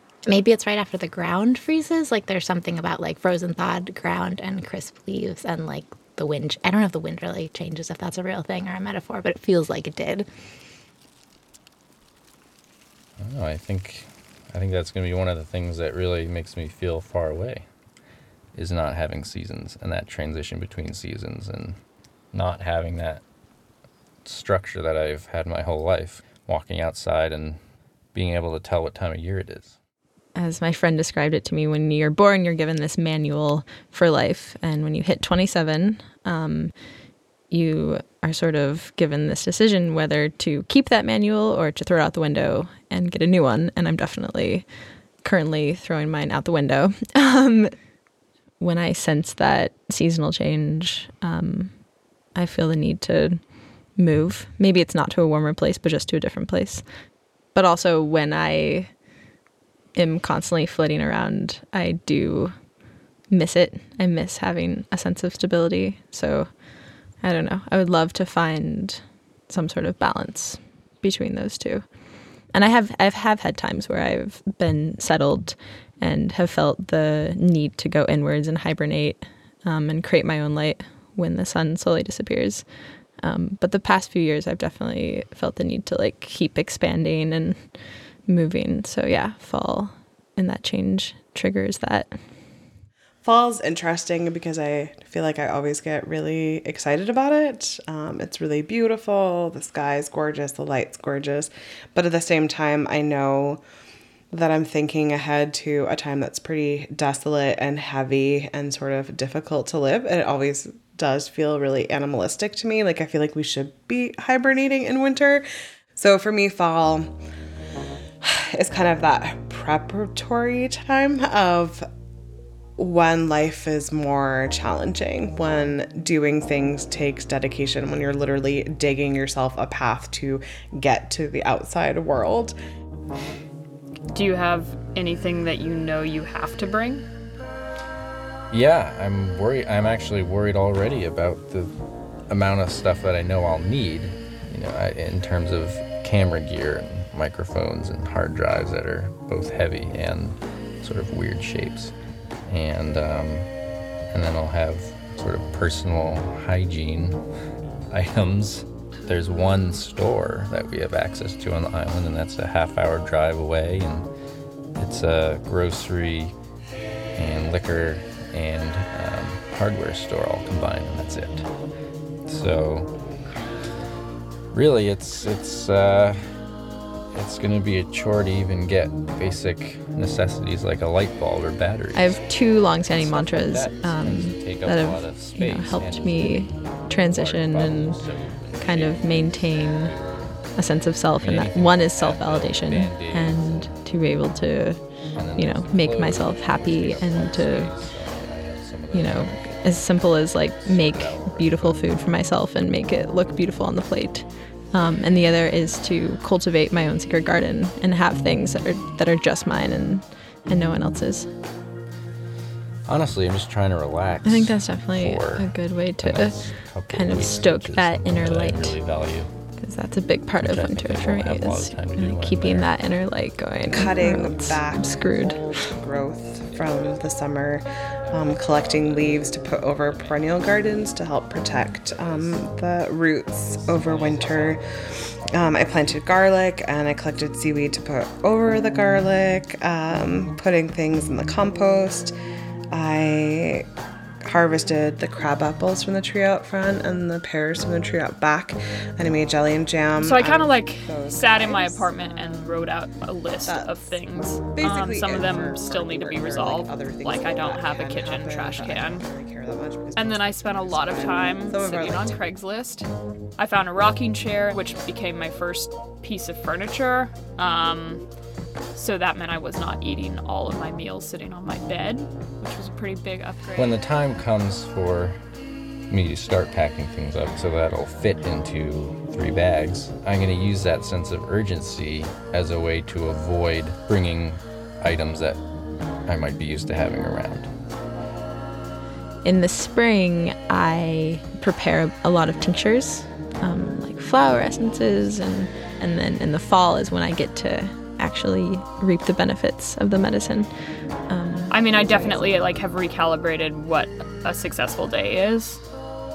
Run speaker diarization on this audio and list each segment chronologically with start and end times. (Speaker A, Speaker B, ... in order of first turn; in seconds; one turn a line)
Speaker A: 0.3-10.3
Speaker B: 13.2-17.7
Speaker B: 18.6-21.8
Speaker B: 22.3-23.2
Speaker B: 24.2-27.6
Speaker B: 28.1-29.8
Speaker C: 30.4-36.7
Speaker C: 37.5-44.7
Speaker C: 45.2-47.8
Speaker C: 48.6-51.8
Speaker C: 52.3-53.4
Speaker C: 54.0-56.9
Speaker C: 57.5-59.0
Speaker C: 60.0-62.5
Speaker C: 63.3-66.5
Speaker C: 67.2-71.9
Speaker C: 72.5-82.7
Speaker C: 83.2-87.7
Speaker C: 88.3-92.2
Speaker D: 93.2-103.6
Speaker D: 104.3-117.1
Speaker D: 118.2-121.9
Speaker D: 122.8-132.6
Speaker E: 134.1-137.1
Speaker B: 138.5-141.7
Speaker B: 142.3-151.9
Speaker B: 152.5-153.5
Speaker B: 154.1-157.2
Speaker B: 157.9-164.1
Speaker B: 164.8-166.3
Speaker B: 167.2-171.5
Speaker B: 172.3-172.9
Speaker B: 174.5-176.4
Speaker B: 177.1-182.2
Speaker C: 181.9-188.0
Speaker B: 182.9-190.4
Speaker C: 188.6-189.9
Speaker C: 190.6-194.8
Speaker B: 191.2-193.7
Speaker B: 195.2-199.8
Speaker C: 195.4-197.8
Speaker C: 198.9-211.3
Speaker B: 200.5-201.8
Speaker B: 212.9-219.3
Speaker C: 214.2-218.8
Speaker C: 219.6-225.4
Speaker B: 220.4-222.8
Speaker D: 223.7-234.7
Speaker B: 228.5-230.1
Speaker B: 231.9-232.5
Speaker B: 233.5-236.0
Speaker D: 235.3-242.1
Speaker D: 242.7-243.7
Speaker D: 244.2-252.7
Speaker E: 250.0-259.1
Speaker D: 253.4-262.2
Speaker E: 260.0-268.0
Speaker E: 268.7-273.8
Speaker B: 273.6-275.2
Speaker B: 275.9-285.4
Speaker B: 286.1-287.5
Speaker C: 289.2-300.5
Speaker C: 301.1-302.5
Speaker E: 301.5-305.6